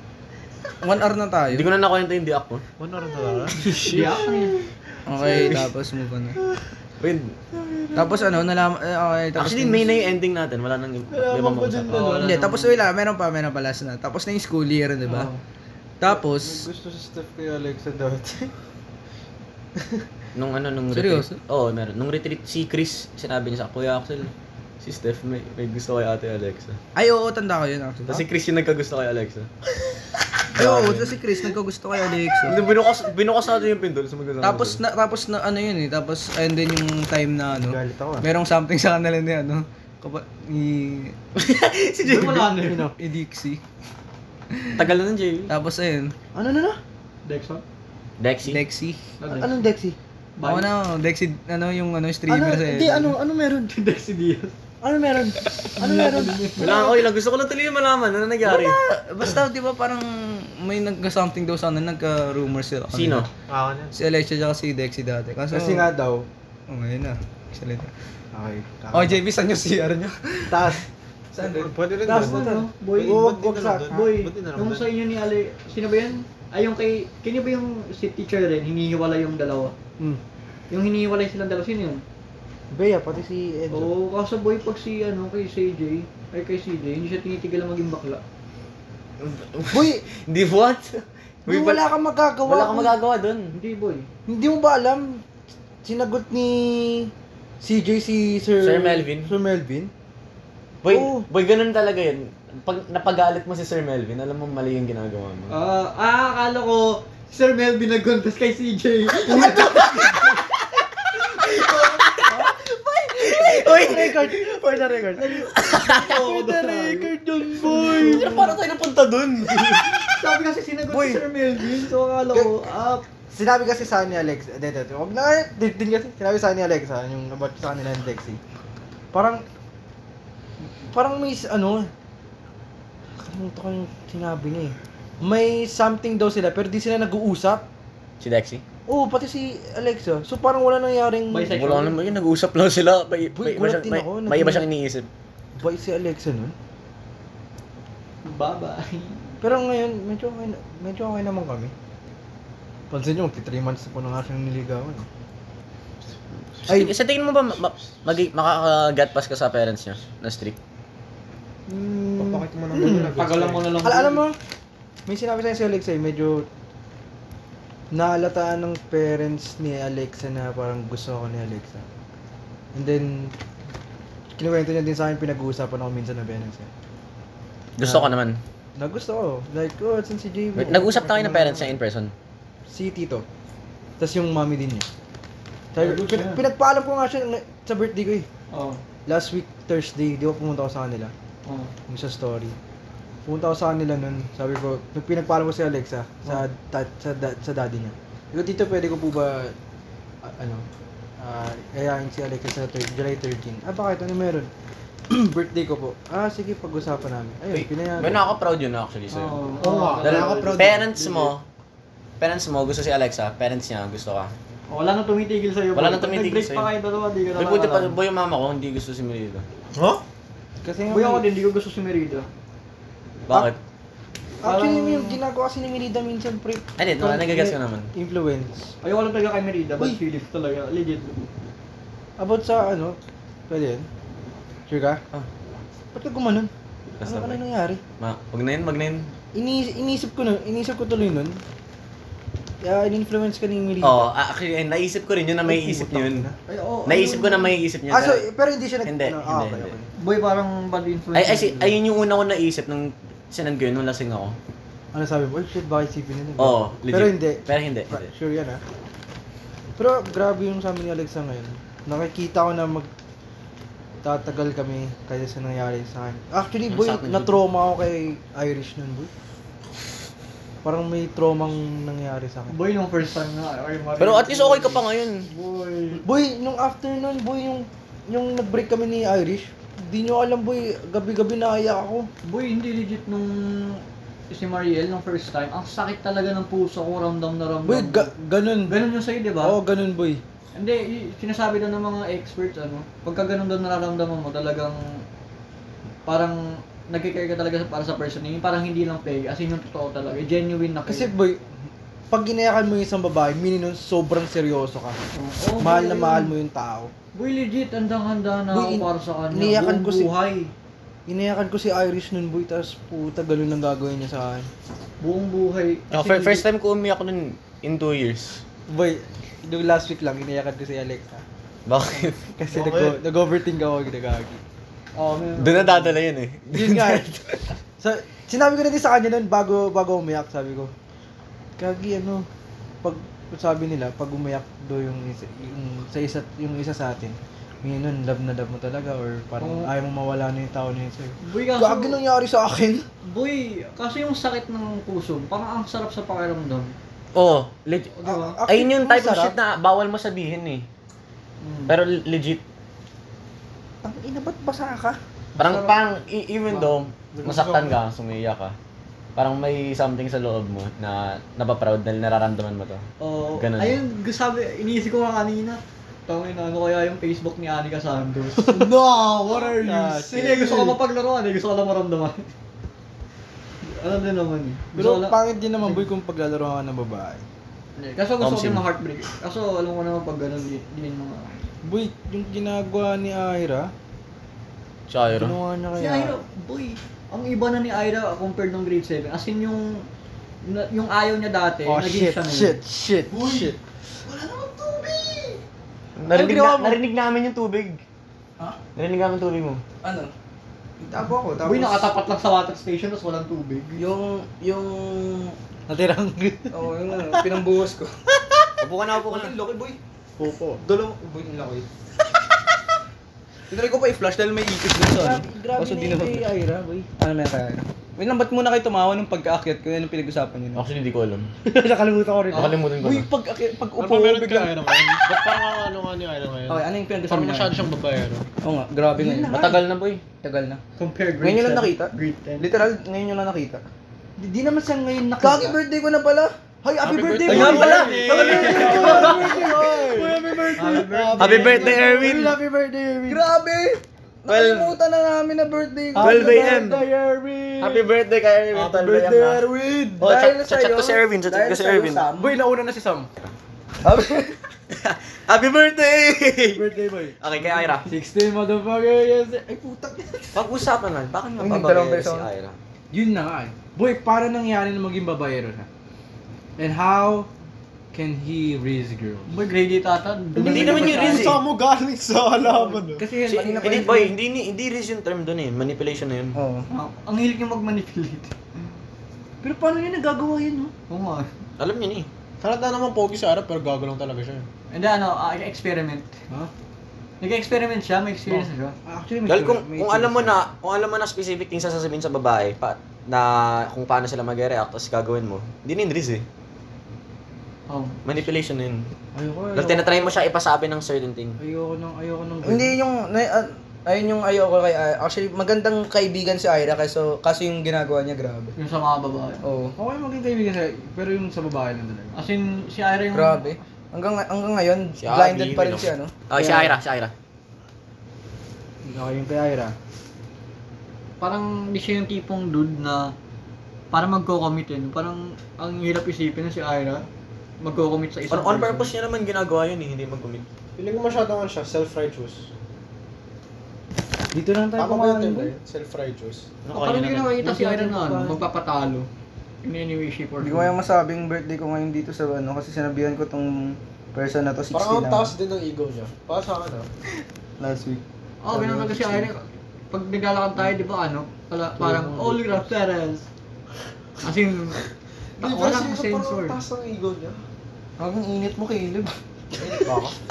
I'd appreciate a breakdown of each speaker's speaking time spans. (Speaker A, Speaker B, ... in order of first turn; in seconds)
Speaker A: 0.8-1.7, 5.1-6.4, 8.0-10.0, 12.1-15.3, 16.0-16.6, 20.9-21.4, 26.9-28.2, 30.5-32.6, 34.4-41.1, 43.0-43.6, 44.5-44.9, 45.5-46.1, 48.5-49.0, 50.4-53.2, 58.4-63.3, 64.0-65.9, 66.7-67.9, 68.9-71.8, 399.8-400.1, 400.9-401.8, 403.8-405.4, 406.5-407.9, 410.6-411.6, 413.5-416.3, 417.0-420.6, 422.8-424.7, 426.5-427.7, 428.4-430.6, 431.2-433.6, 435.2-436.3, 437.2-438.1, 443.1-446.6, 450.0-452.4, 453.8-454.4, 461.4-462.3, 473.2-474.1, 476.4-476.7, 502.4-508.5, 509.4-509.8, 513.1-516.2, 540.4-545.3, 547.6-549.3, 558.0-559.1
Speaker B: 1.5-2.6, 7.0-7.4, 9.4-12.1, 20.4-26.8, 28.1-29.5, 30.5-31.2, 32.5-34.8, 41.4-42.5, 44.8-45.5, 48.2-48.6, 56.6-58.8, 62.9-63.3, 89.2-91.8, 92.4-93.5, 98.6-99.3, 100.8-105.5, 109.3-112.5, 113.2-114.4, 115.6-116.0, 117.9-120.2, 120.9-121.2, 138.2-138.6, 141.5-145.1, 156.7-160.6, 177.8-178.4, 180.6-182.1, 207.5-209.4, 210.0-211.4, 212.2-214.3, 215.7-216.7, 217.3-219.5, 223.3-223.6, 226.8-227.9, 237.0-237.4, 238.0-239.1, 243.8-246.3, 246.9-248.3, 248.8-249.8, 251.2-254.4, 256.4-258.1, 266.7-267.4, 274.0-275.2, 315.9-318.4, 321.7-322.3, 325.4-327.5, 347.1-350.7, 351.7-352.4, 355.4-358.6, 359.2-362.9, 363.4-363.8, 378.2-378.6, 384.9-385.4, 396.0-397.8, 398.8-399.6, 408.6-409.4, 420.6-421.3, 422.3-423.1, 429.3-430.0, 436.9-440.0, 441.2-442.4, 444.3-444.8, 446.0-446.8, 447.6-449.4, 450.0-452.1, 454.7-457.9, 460.3-462.6, 470.4-471.4, 473.2-476.4, 481.6-482.1, 489.3-496.2, 498.0-498.9, 499.5-501.4, 515.0-517.1, 528.3-530.5, 536.6-537.4, 559.6-560.1
Speaker C: 2.8-3.6, 63.5-63.9, 71.4-74.9, 162.2-163.7, 209.6-211.3, 219.7-220.0, 322.5-323.0, 357.1-357.8, 368.6-370.1, 393.1-393.5, 410.2-410.6, 423.8-428.3, 436.8-441.9, 448.5-449.5, 470.5-473.1, 482.4-484.5, 530.8-532.5, 534.8-536.5, 544.7-546.9, 555.4-557.4
Speaker D: 3.6-4.4, 5.2-5.7, 7.5-8.4, 11.1-12.4, 16.0-18.5, 19.8-20.0, 37.5-38.3, 42.2-43.0, 46.3-46.8, 49.3-50.0, 52.3-53.7, 54.8-57.0, 65.5-66.3, 68.3-69.2, 70.5-70.8, 72.0-74.0, 82.7-83.9, 89.7-90.0, 91.5-93.0, 94.3-95.2, 95.8-99.9, 100.9-101.3, 109.3-110.0, 113.4-118.5, 122.3-122.6, 123.3-128.4, 129.1-129.4, 130.9-131.9, 133.2-137.7, 138.9-141.6, 143.3-144.7, 145.6-146.5, 149.4-151.7, 152.9-155.1, 156.7-156.9, 162.8-163.1, 163.8-164.4, 165.1-166.5, 167.9-171.8, 172.7-173.3, 174.4-176.7, 177.8-178.1, 178.8-181.8, 182.7-183.2, 184.0-184.9, 185.7-188.3, 189.1-191.1, 191.9-192.6, 193.3-199.6, 200.2-200.7, 201.2-204.5, 205.1-208.2, 220.6-221.2, 224.4-228.7, 232.2-233.0, 233.5-233.9, 234.7-235.0, 235.9-237.8, 239.3-241.4, 242.6-244.1, 245.4-246.4, 247.9-249.9, 254.9-258.6, 259.8-262.9, 264.0-269.1, 270.6-272.6, 276.0-282.1, 287.6-288.8, 289.4-290.2, 300.9-301.5, 302.1-305.0, 305.6-306.9, 308.5-310.1, 311.1-314.5, 318.7-321.2, 322.4-324.4, 326.5-327.1, 327.8-330.7, 331.6-332.3, 332.8-342.9, 348.0-349.4, 353.8-355.0, 368.5-370.8, 374.7-377.2, 381.6-383.7, 385.1-386.2, 391.7-393.6, 394.1-395.4, 400.9-401.8, 405.7-407.3, 409.0-411.6, 414.9-416.9, 421.4-422.6, 429.0-429.6, 434.2-435.6, 436.6-443.3, 445.9-447.9, 448.6-450.0, 452.1-453.1, 456.4-460.5, 462.9-465.7, 466.6-467.3, 467.9-469.3, 470.4-471.0, 472.4-474.1, 479.4-480.7, 488.3-490.4, 499.1-500.2, 501.4-502.8, 509.8-512.2, 516.4-516.8, 518.8-519.8, 534.3-535.6, 537.4-538.4, 551.8-552.6, 559.6-559.9
Speaker E: 3.6-4.6, 11.9-12.8, 15.1-15.4, 42.0-42.9, 47.2-47.6, 49.2-49.6, 50.4-50.7, 53.5-54.5, 55.8-56.9, 72.0-73.3, 73.9-79.8, 80.7-82.0, 83.7-88.2, 93.5-94.1, 105.5-110.4, 111.3-118.6, 119.8-123.0, 141.3-142.0, 148.2-149.2, 161.7-164.3, 185.8-186.4, 188.5-188.8, 191.5-191.7, 209.1-210.7, 214.7-218.0, 220.9-222.3, 224.4-225.2, 228.8-231.2, 246.5-247.6, 249.9-251.8, 272.5-276.0, 282.3-288.1, 288.7-289.6, 290.5-294.8, 296.1-301.1, 305.1-306.3, 307.1-310.5, 315.0-316.4, 325.0-326.0, 339.4-339.7, 341.2-342.0, 343.1-346.7, 347.9-348.4, 351.4-351.8, 355.4-355.8, 363.0-368.8, 369.3-372.3, 373.6-375.9, 377.8-381.4, 385.8-389.9, 390.4-392.6, 401.4-403.8, 430.8-432.5, 437.3-439.4, 440.6-441.8, 469.3-471.4, 476.7-478.3, 480.9-481.3, 484.7-486.2, 487.2-488.8, 497.7-498.0, 508.6-509.4, 512.1-513.5, 521.2-523.1, 523.9-527.1, 527.6-528.9, 536.7-539.1, 539.6-540.7, 548.4-553.3, 554.2-554.8, 555.4-556.6